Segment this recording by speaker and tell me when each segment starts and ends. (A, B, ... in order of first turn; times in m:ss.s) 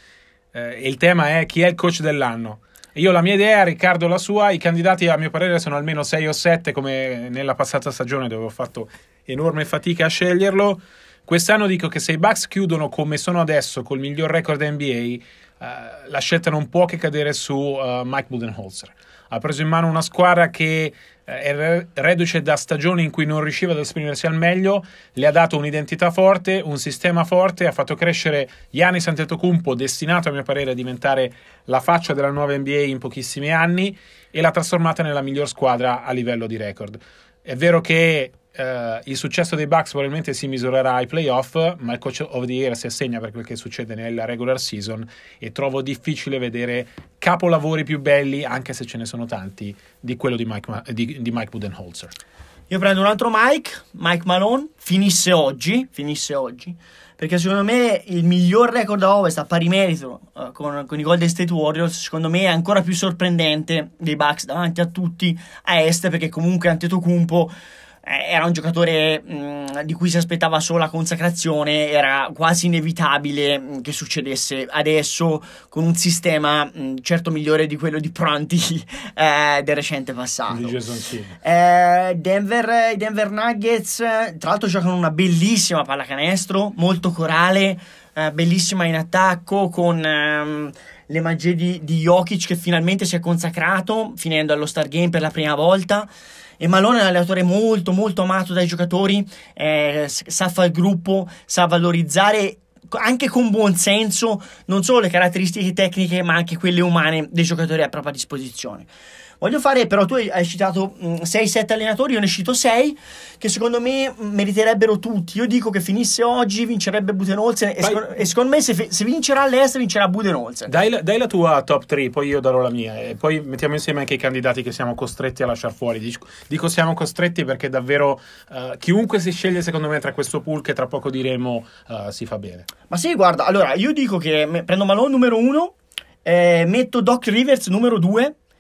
0:00.5-0:52.1 A
0:52.7-1:20.8 B
1:20.5-1:21.4 A
1:21.4-1:36.1 B
1:36.6-1:48.9 B
1:49.4-2:00.7 B
2:00.7-2:12.7 A
2:12.9-2:18.4 B